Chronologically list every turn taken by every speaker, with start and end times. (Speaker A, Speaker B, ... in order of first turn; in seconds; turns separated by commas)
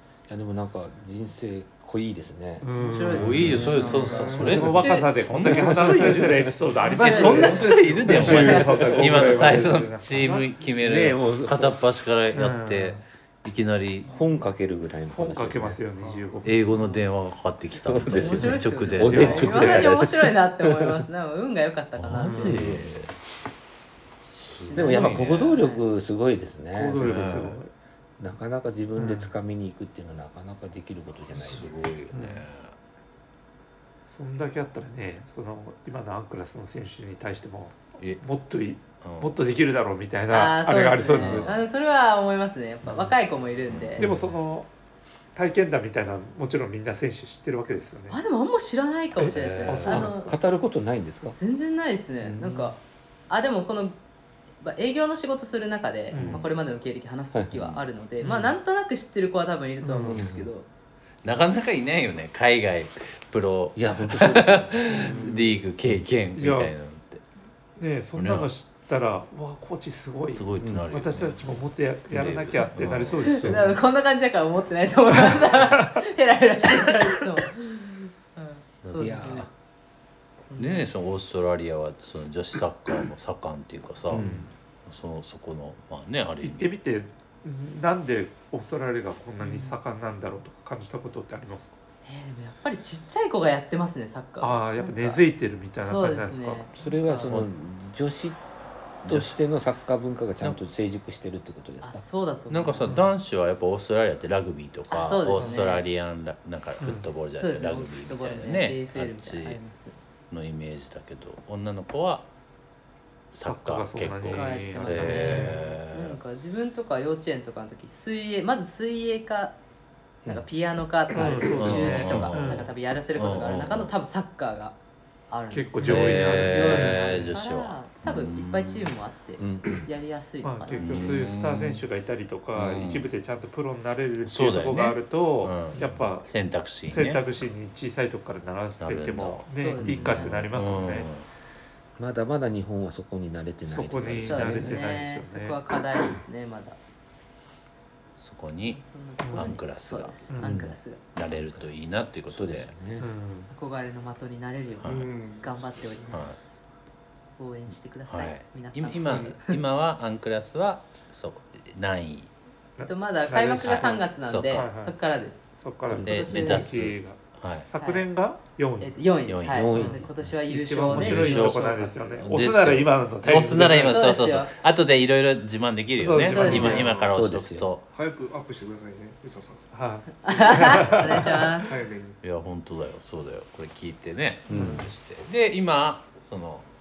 Speaker A: 0.3-3.7, Speaker B: 2.6-3.7, Speaker C: 2.8-4.4, Speaker D: 3.1-6.3, Speaker E: 3.6-4.7, Speaker B: 4.4-10.1, Speaker A: 4.5-4.8, Speaker A: 5.4-6.6, Speaker E: 5.5-10.7, Speaker D: 6.8-14.1, Speaker C: 7.0-8.7, Speaker A: 8.8-9.3, Speaker A: 10.8-11.8, Speaker B: 12.3-13.0, Speaker A: 14.0-15.8, Speaker B: 15.1-16.6, Speaker E: 15.9-16.4, Speaker D: 16.4-19.6, Speaker A: 17.7-21.0, Speaker C: 18.1-22.6, Speaker B: 19.0-19.9, Speaker D: 22.0-23.1, Speaker B: 22.2-22.8, Speaker A: 22.6-22.9, Speaker D: 24.2-25.6, Speaker C: 24.5-25.8, Speaker A: 24.7-27.6, Speaker B: 24.9-25.3, Speaker B: 26.7-27.7, Speaker D: 27.0-27.6, Speaker A: 28.2-31.7, Speaker B: 28.9-29.3, Speaker D: 31.3-32.7, Speaker B: 32.1-32.4, Speaker B: 34.1-41.5, Speaker D: 39.0-39.3, Speaker C: 40.3-44.1, Speaker D: 41.1-41.6, Speaker D: 43.7-44.3, Speaker B: 44.0-44.7, Speaker B: 45.3-48.2, Speaker C: 48.1-50.3, Speaker B: 49.2-50.2, Speaker D: 49.4-49.9, Speaker A: 49.8-51.4, Speaker C: 51.3-52.8, Speaker A: 52.2-52.7, Speaker C: 53.3-54.0, Speaker C: 54.6-60.7, Speaker B: 56.1-56.4, Speaker D: 56.1-56.5, Speaker A: 57.3-57.8, Speaker B: 58.2-58.5, Speaker B: 59.8-60.2, Speaker A: 60.0-60.5, Speaker D: 61.2-67.2, Speaker A: 63.8-65.1, Speaker E: 65.0-65.5, Speaker B: 66.3-66.7, Speaker B: 67.8-73.8, Speaker D: 68.2-68.5, Speaker D: 70.3-71.5, Speaker D: 72.1-73.6, Speaker C: 73.2-79.5, Speaker B: 75.2-76.1, Speaker D: 78.8-79.1, Speaker A: 79.0-79.5, Speaker C: 80.5-80.9, Speaker D: 80.6-84.3, Speaker A: 84.1-84.4, Speaker B: 84.1-84.5, Speaker D: 84.8-86.7, Speaker B: 86.4-91.7, Speaker C: 89.4-89.7, Speaker C: 92.0-95.2, Speaker B: 94.4-96.7, Speaker C: 95.8-97.3, Speaker A: 96.8-98.4, Speaker D: 99.0-99.4, Speaker A: 99.0-102.0, Speaker C: 101.8-103.0, Speaker D: 102.5-109.6, Speaker C: 104.9-105.8, Speaker B: 106.8-107.1, Speaker C: 107.4-110.0, Speaker D: 110.3-112.3, Speaker D: 113.3-116.2, Speaker B: 113.4-115.6, Speaker C: 114.3-119.5, Speaker C: 120.3-124.7, Speaker B: 121.1-122.7, Speaker D: 121.5-122.5, Speaker A: 121.8-122.4, Speaker D: 123.1-123.9, Speaker C: 125.3-131.1, Speaker B: 125.5-127.2, Speaker D: 125.8-128.9, Speaker A: 129.4-129.9, Speaker B: 130.4-136.3, Speaker D: 130.8-131.8, Speaker D: 132.6-133.1, Speaker D: 134.2-137.2, Speaker B: 136.8-141.1, Speaker D: 138.8-141.3, Speaker C: 139.5-140.4, Speaker A: 142.0-144.8, Speaker B: 143.7-145.6, Speaker C: 144.2-146.8, Speaker D: 148.2-150.3, Speaker C: 148.7-151.0, Speaker B: 149.2-149.5, Speaker B: 150.3-150.6, Speaker A: 150.4-150.7, Speaker D: 151.1-152.7, Speaker A: 152.3-153.1, Speaker B: 153.0-153.5, Speaker C: 153.5-156.6, Speaker D: 154.8-155.1, Speaker E: 154.8-156.2, Speaker D: 156.1-156.4, Speaker C: 157.4-159.6, Speaker D: 158.1-162.3, Speaker E: 159.1-159.3, Speaker B: 162.8-169.0, Speaker C: 162.8-165.5, Speaker D: 163.6-164.7, Speaker A: 165.9-166.4, Speaker D: 166.0-167.7, Speaker C: 166.1-166.7, Speaker C: 167.8-168.0, Speaker C: 168.8-172.0, Speaker D: 169.3-169.9, Speaker A: 169.5-170.1, Speaker B: 169.7-174.1, Speaker D: 170.9-177.9, Speaker C: 173.8-174.5, Speaker B: 176.0-176.8, Speaker C: 176.2-176.9, Speaker E: 176.5-177.1, Speaker A: 176.9-177.7, Speaker E: 177.9-179.7, Speaker B: 179.7-181.6, Speaker C: 180.2-181.7, Speaker E: 180.3-182.2, Speaker D: 182.2-186.7, Speaker A: 184.5-184.9, Speaker B: 184.5-184.9